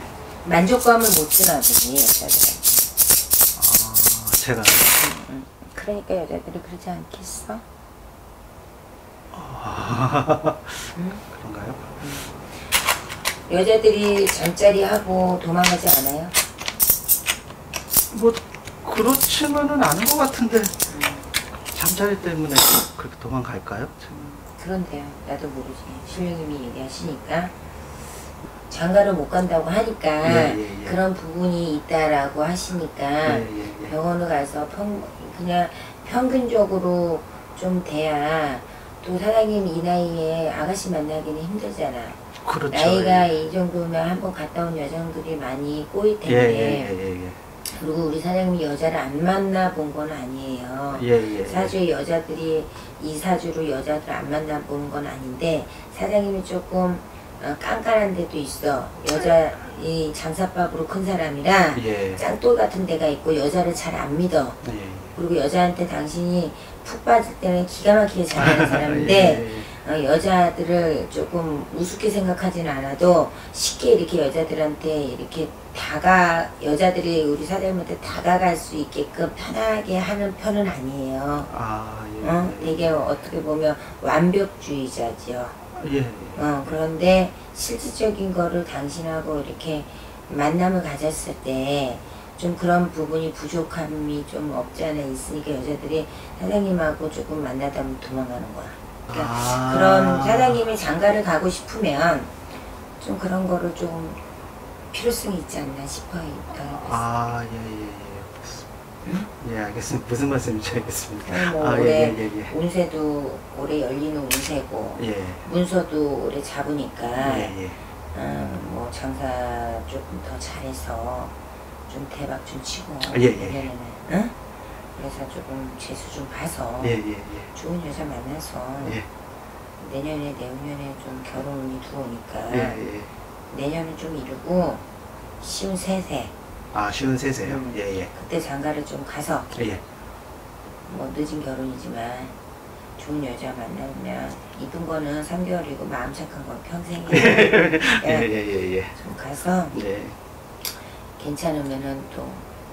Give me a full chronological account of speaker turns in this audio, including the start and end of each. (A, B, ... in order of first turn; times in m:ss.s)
0:00.4-0:02.7 A
0:03.5-0:05.0 B
0:04.9-0:07.6 A
0:09.3-0:11.8 B
0:10.9-0:11.2 A
0:12.0-0:12.6 A
0:13.5-0:16.4 A
0:18.1-0:20.7 B
0:20.9-0:21.3 A
0:21.7-0:24.3 B
0:24.1-0:27.5 A
0:28.7-0:46.9 A
0:30.2-0:31.0 B
0:33.2-0:33.9 B
0:42.4-0:43.3 B
0:46.2-0:47.4 B
0:47.6-1:04.6 A
0:50.9-0:51.7 B
1:01.7-1:02.2 B
1:04.6-1:05.2 B
1:05.1-1:21.5 A
1:08.4-1:09.7 B
1:21.5-1:23.3 B
1:22.2-1:25.6 A
1:25.7-1:26.8 B
1:26.4-1:42.4 A
1:39.1-1:40.6 B
1:43.0-1:44.2 A
1:44.9-1:47.0 A
1:46.7-1:48.7 B
1:49.0-1:49.3 A
1:49.2-1:52.5 B
1:51.2-1:57.5 A
1:55.0-1:55.4 B
1:57.2-1:57.8 B
1:58.1-2:01.3 A
2:01.9-2:04.3 A
2:03.1-2:03.7 B
2:04.9-2:07.0 A
2:06.8-2:07.5 B
2:07.5-2:09.0 A
2:08.8-2:09.1 B
2:09.8-2:12.8 A
2:12.5-2:13.1 B
2:13.5-2:14.8 A
2:15.4-2:16.3 A
2:16.7-2:18.1 B
2:17.4-2:19.5 A
2:19.5-2:19.8 B
2:20.9-2:22.3 A
2:23.0-2:28.3 A
2:27.1-2:29.0 B
2:28.9-2:29.8 A
2:29.7-2:30.2 B
2:31.2-2:32.5 A